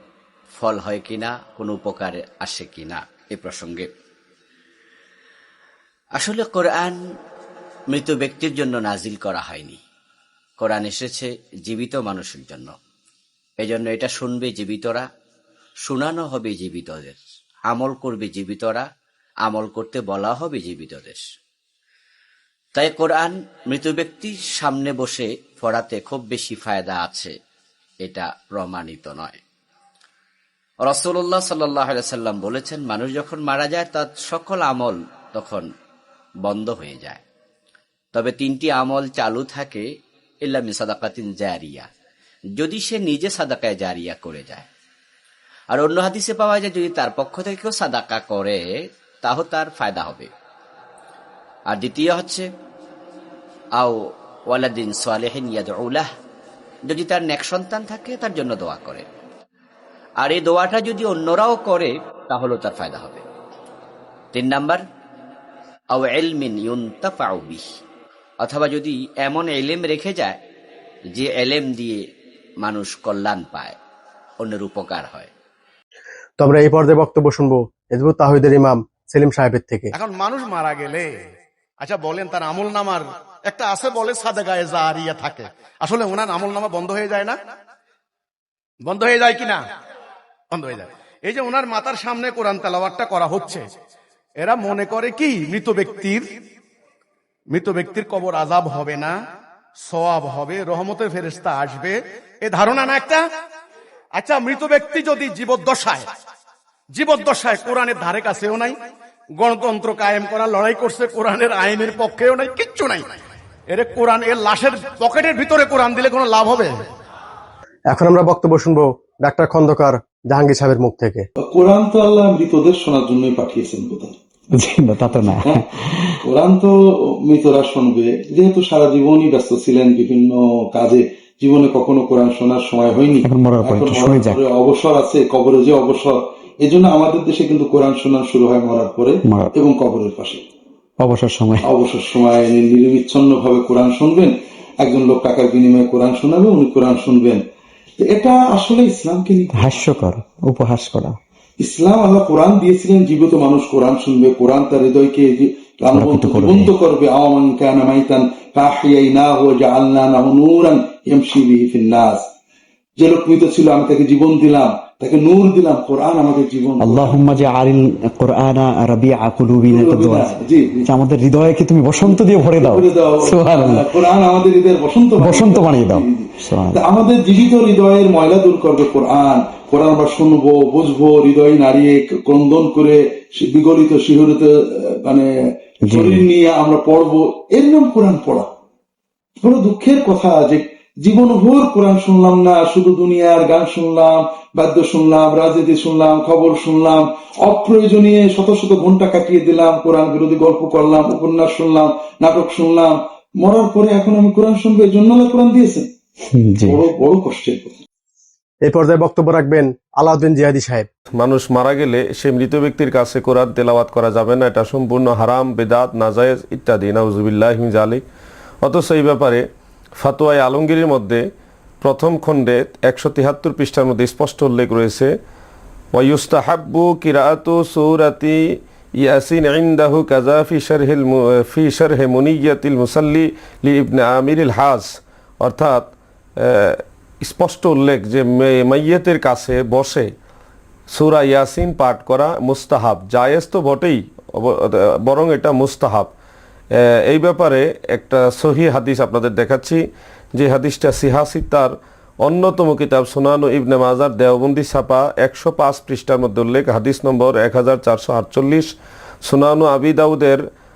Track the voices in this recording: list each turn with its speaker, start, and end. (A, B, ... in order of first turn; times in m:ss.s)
0:00.5-0:03.9 A
0:06.2-0:07.0 A
0:07.9-0:09.8 A
0:10.6-0:12.7 A
0:13.6-0:15.1 A
0:15.8-0:18.9 A
0:19.4-0:21.2 A
0:22.7-0:27.3 A
0:28.0-0:29.4 A
0:30.8-0:35.7 A
0:36.4-0:37.2 A
0:38.1-0:39.8 A
0:40.4-0:41.9 A
0:42.6-0:44.6 A
0:45.7-0:48.6 A
0:49.2-0:50.3 A
0:51.7-0:52.5 A
0:54.5-0:56.1 A
0:56.8-0:59.0 A
1:00.2-1:03.2 A
1:04.3-1:04.8 A
1:05.9-1:07.6 A
1:08.4-1:10.4 A
1:11.1-1:12.0 A
1:12.6-1:13.8 A
1:14.4-1:15.3 A
1:16.4-1:19.9 B
1:19.9-1:21.1 C
1:21.8-1:27.3 C
1:28.8-1:29.6 C
1:30.5-1:33.6 C
1:34.4-1:36.3 C
1:37.5-1:39.1 C
1:39.9-1:43.2 C
1:44.2-1:46.0 C
1:46.9-1:48.8 C
1:49.4-1:53.0 C
1:53.7-1:56.8 C
1:57.9-2:01.2 B
2:01.4-2:04.2 D
2:04.6-2:05.5 E
2:05.1-2:20.4 D
2:13.3-2:14.4 E
2:21.0-2:21.6 E
2:21.6-2:27.4 D
2:28.0-2:30.0 D
2:29.6-2:31.2 E
2:31.6-2:42.2 D
2:36.0-2:36.6 E
2:43.0-2:47.3 D
2:46.8-2:50.3 E
2:49.6-2:51.0 D
2:50.9-2:53.9 E
2:51.9-3:05.3 D
2:55.2-2:56.8 E
3:05.8-3:08.5 D
3:05.9-3:06.2 E
3:09.4-3:25.9 D
3:26.5-3:27.8 D
3:28.6-3:30.9 B
3:31.1-3:38.0 F
3:38.6-3:39.4 F
3:40.0-3:41.2 F
3:41.8-3:45.1 F
3:45.9-3:48.4 F
3:49.0-4:00.1 F
4:00.9-4:06.1 F
4:07.1-4:09.8 F
4:10.3-4:20.4 F